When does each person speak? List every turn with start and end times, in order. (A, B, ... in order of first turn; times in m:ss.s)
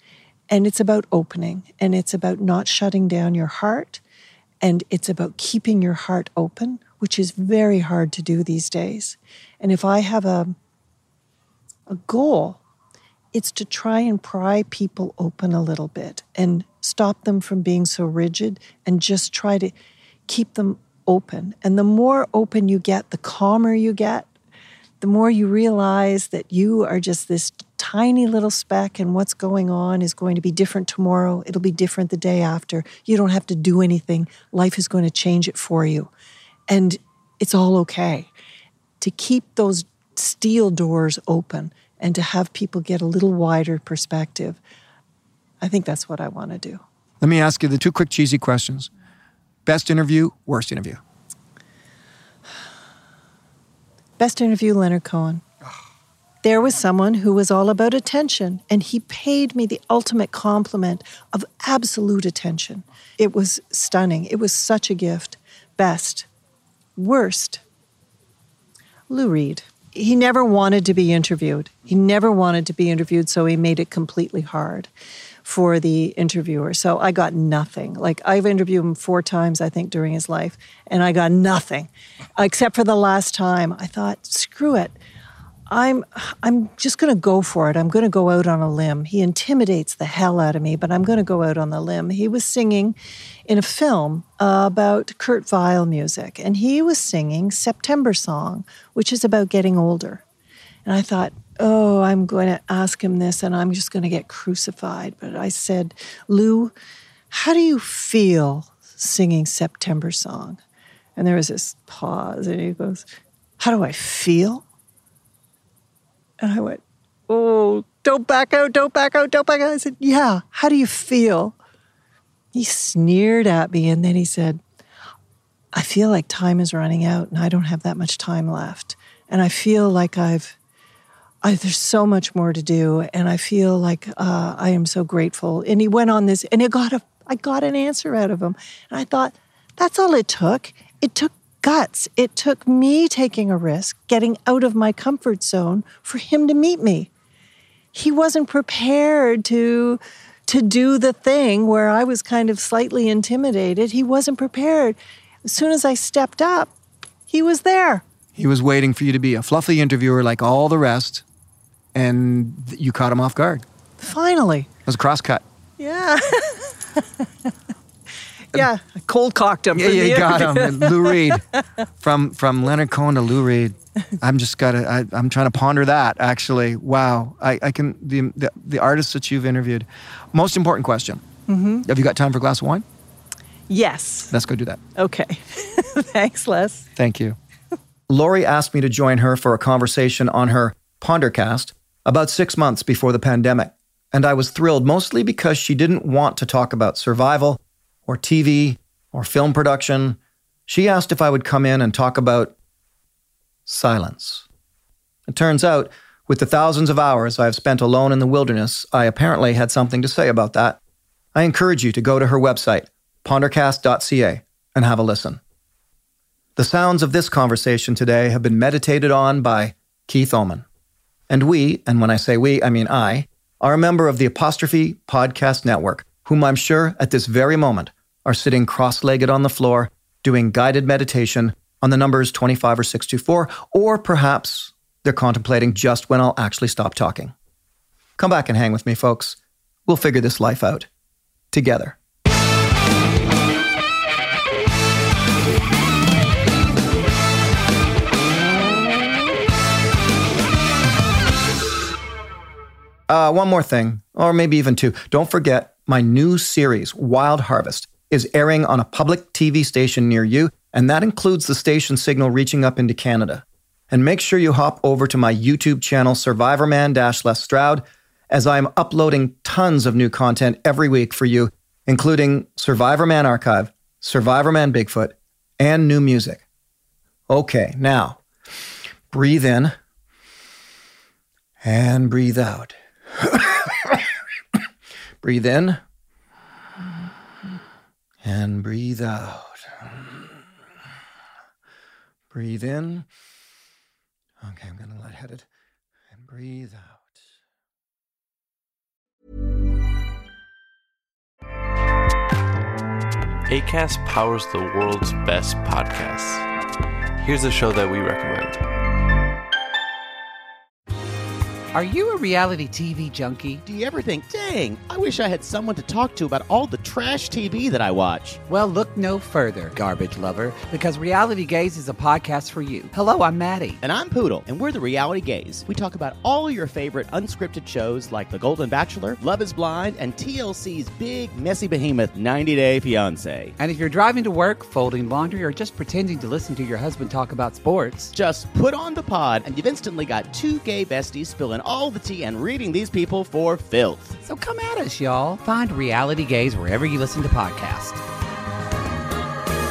0:00.5-0:04.0 A
0:04.6-0:10.5 A
0:11.9-0:12.6 A
0:13.3-0:19.7 A
0:20.3-0:24.3 A
0:25.0-0:36.1 A
0:36.7-0:38.3 A
0:39.0-0:44.6 A
0:45.6-0:46.8 A
0:47.2-0:48.9 B
0:49.6-0:51.0 B
0:54.2-0:55.4 A
0:56.4-1:06.3 A
1:07.0-1:07.6 A
1:09.1-1:14.9 A
1:15.4-1:24.9 A
1:25.7-1:33.0 A
1:33.5-1:40.2 A
1:40.8-1:46.7 A
1:47.3-1:50.6 A
1:51.2-1:53.0 A
1:53.6-1:54.6 A
1:56.4-2:01.6 A
2:02.5-2:04.6 A
2:05.7-2:10.6 A
2:11.4-2:27.1 A
2:27.9-2:36.7 A
2:37.3-2:38.0 A
2:38.4-2:41.2 B
2:41.9-2:43.6 B
2:44.0-2:44.7 A
2:44.8-2:45.4 B
2:45.8-2:47.2 A
2:48.5-2:51.4 A
2:49.7-2:51.4 B
2:52.0-3:01.2 B
3:01.5-3:01.8 A
3:01.8-3:02.8 B
3:03.7-3:04.3 A
3:04.3-3:04.8 B
3:05.0-3:06.9 A
3:07.0-3:07.4 B
3:08.1-3:22.5 B
3:23.6-3:24.4 B
3:25.3-3:30.8 B
3:31.3-3:35.4 B
3:36.6-3:40.6 B
3:41.3-3:57.3 B
3:58.2-4:00.9 B
4:01.5-4:02.0 B
4:13.1-4:36.4 B
4:37.3-4:38.2 B
4:39.1-4:39.8 B
4:41.6-4:44.0 B
4:45.2-4:45.8 B
4:48.2-4:50.4 B
4:52.3-4:53.1 B
4:54.4-4:55.4 B
4:56.1-4:57.1 B
5:03.5-5:06.4 C
5:07.2-5:08.6 C
5:11.7-5:13.6 D
5:13.6-5:18.4 E
5:18.5-5:23.8 D
5:23.8-5:33.5 E
5:33.6-5:38.1 D
5:38.1-5:44.2 E
5:44.2-5:48.0 D